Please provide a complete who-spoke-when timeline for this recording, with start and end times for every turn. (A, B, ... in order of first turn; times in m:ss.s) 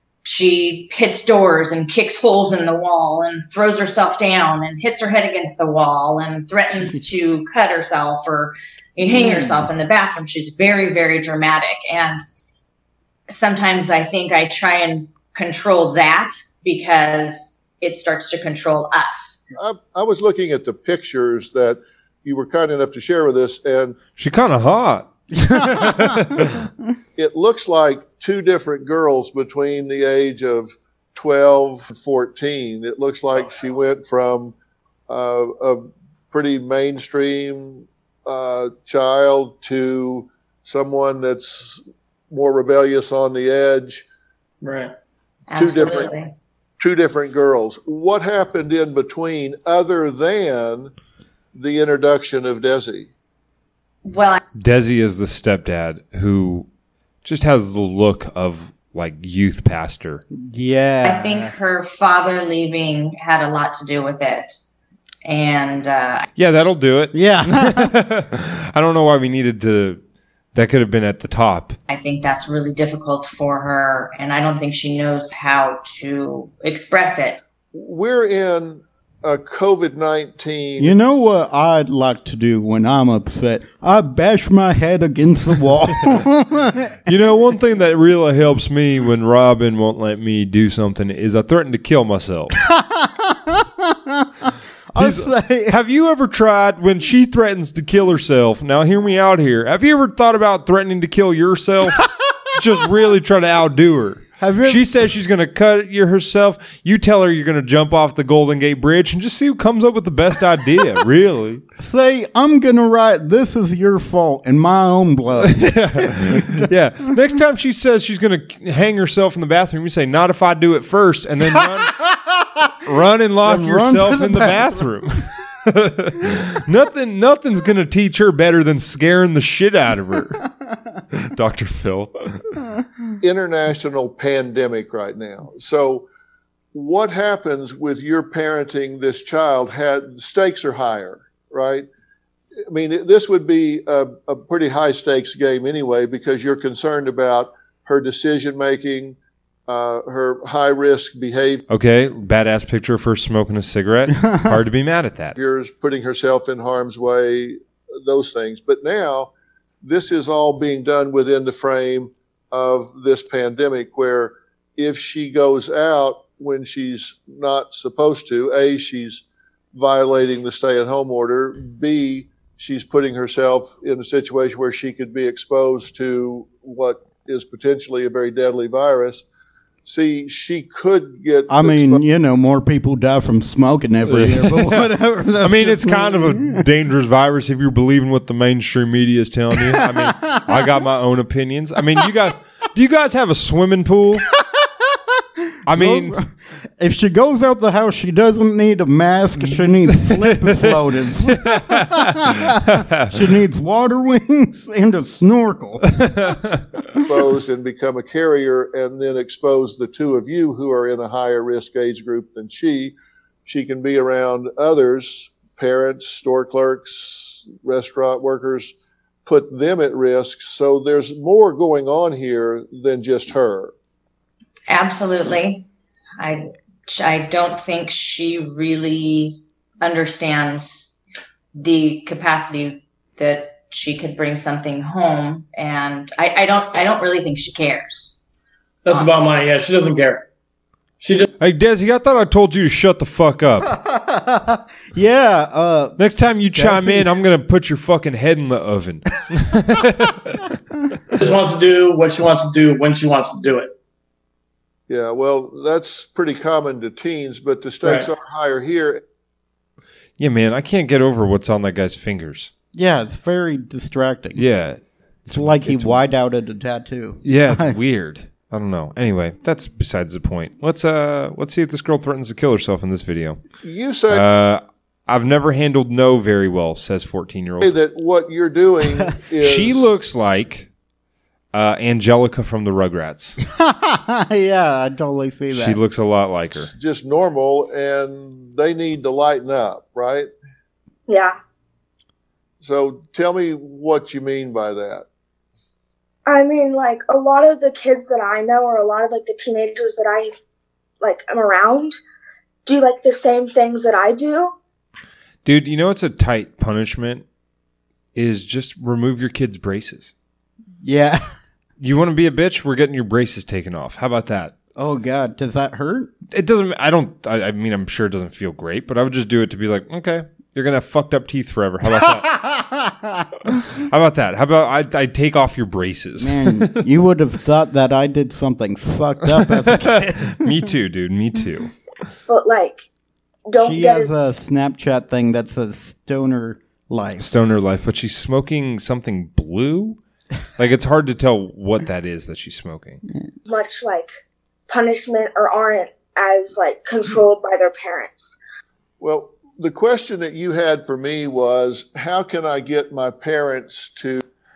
0:00.2-0:12.2 A
0:09.1-0:09.7 B
0:13.3-0:19.4 A
0:19.6-0:24.0 C
0:24.2-0:26.7 D
0:25.3-0:26.6 B
0:27.2-0:34.5 C
0:35.1-0:44.0 C
0:44.6-0:44.9 E
0:45.5-0:46.3 A
0:45.6-0:46.1 C
0:46.8-0:50.9 C
0:51.6-0:53.1 C
0:54.0-0:54.4 A
0:54.6-0:56.7 D
0:57.2-1:00.2 D
1:00.3-1:01.5 B
1:01.0-1:04.6 A
1:05.3-1:06.3 A
1:06.4-1:10.0 D
1:07.1-1:08.0 B
1:10.5-1:11.8 D
1:11.9-1:17.4 A
1:17.7-1:21.0 C
1:20.8-1:27.1 B
1:27.1-1:32.6 D
1:32.6-1:35.8 B
1:35.0-1:51.6 D
1:44.4-1:44.8 B
1:51.8-1:56.7 B
1:55.4-2:02.0 D
2:01.6-2:02.9 B
2:02.9-2:10.4 D
2:03.4-2:04.9 B
2:11.1-2:12.6 D
2:13.2-2:16.0 C
2:16.7-2:21.9 C
2:22.7-2:29.2 C
2:29.7-2:31.6 C
2:31.7-2:35.4 D
2:35.4-2:39.3 C
2:39.8-2:49.2 C
2:49.8-2:59.2 C
2:59.8-3:02.0 C
3:01.5-3:06.6 B
3:04.1-3:14.3 D
3:09.7-3:10.6 B
3:14.4-3:26.0 B
3:15.7-3:16.2 D
3:19.4-3:23.2 D
3:26.0-3:26.6 D
3:27.1-3:32.9 C
3:33.4-3:38.7 C
3:39.3-3:43.7 C
3:44.7-3:45.6 A
3:46.2-3:51.0 A
3:51.6-3:58.2 A
3:58.8-4:00.2 E
4:01.0-4:01.3 E
4:01.4-4:03.7 D
4:03.7-4:06.0 B
4:06.0-4:10.4 D
4:06.5-4:07.2 B
4:11.2-4:13.7 E
4:14.9-4:19.0 C
4:17.8-4:18.1 E
4:20.2-4:22.5 D
4:22.7-4:24.4 B
4:24.4-4:26.0 D
4:25.3-4:27.8 B
4:27.2-4:33.4 D
4:33.6-4:34.2 C
4:34.1-4:37.7 D
4:37.6-4:39.9 C
4:39.4-4:40.7 D
4:41.5-4:43.4 D
4:43.4-4:45.8 B
4:45.5-4:46.7 D
4:46.6-4:50.3 C
4:51.1-4:51.4 F
4:52.6-4:55.0 C
4:56.3-5:00.3 F
5:01.0-5:02.0 F
5:02.7-5:04.5 F
5:05.4-5:07.2 D
5:08.2-5:10.1 D
5:10.8-5:11.2 B
5:11.8-5:14.5 D
5:14.8-5:16.1 B
5:16.3-5:22.3 D
5:21.9-5:23.3 B
5:23.8-5:26.8 D
5:26.2-5:30.7 B
5:29.4-5:31.7 D
5:32.3-5:32.8 F
5:33.5-5:34.2 F
5:33.6-5:37.3 B
5:37.2-5:40.0 D
5:40.6-5:43.0 D
5:43.5-5:44.1 F
5:44.7-5:48.4 F
5:49.0-5:54.2 C